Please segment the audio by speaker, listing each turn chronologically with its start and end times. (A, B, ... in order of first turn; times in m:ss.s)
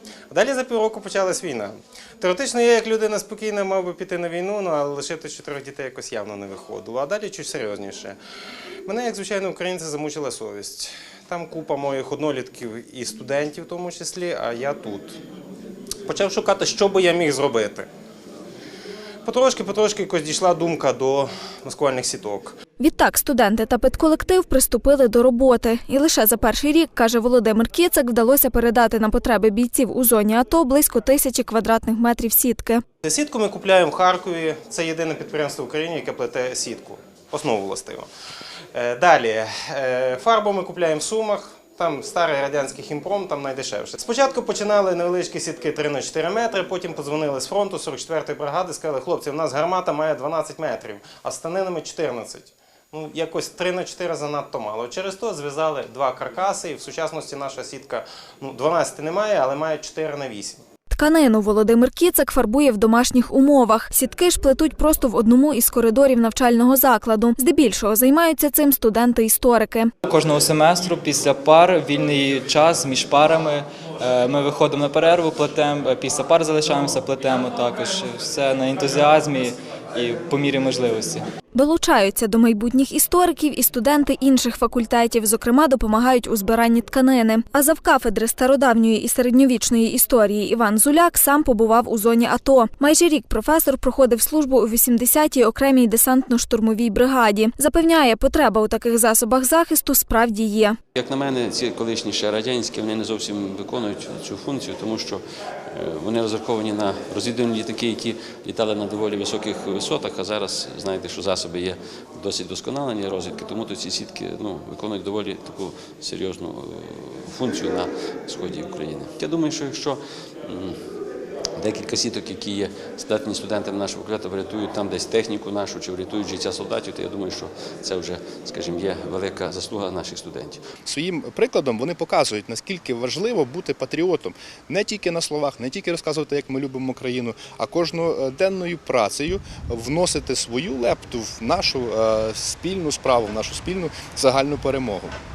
0:00.3-0:08.2 A
0:08.8-0:15.2 A
0:16.0-0:17.9 A
0:19.2-0:22.6 A
0:22.8-0:32.8 B
0:33.0-0:38.1 A
0:38.7-1:00.6 A
1:00.9-1:09.9 B
1:10.0-1:21.2 C
1:21.5-1:40.8 B
1:40.9-2:00.8 D
2:01.6-2:10.6 D
2:10.8-2:25.1 E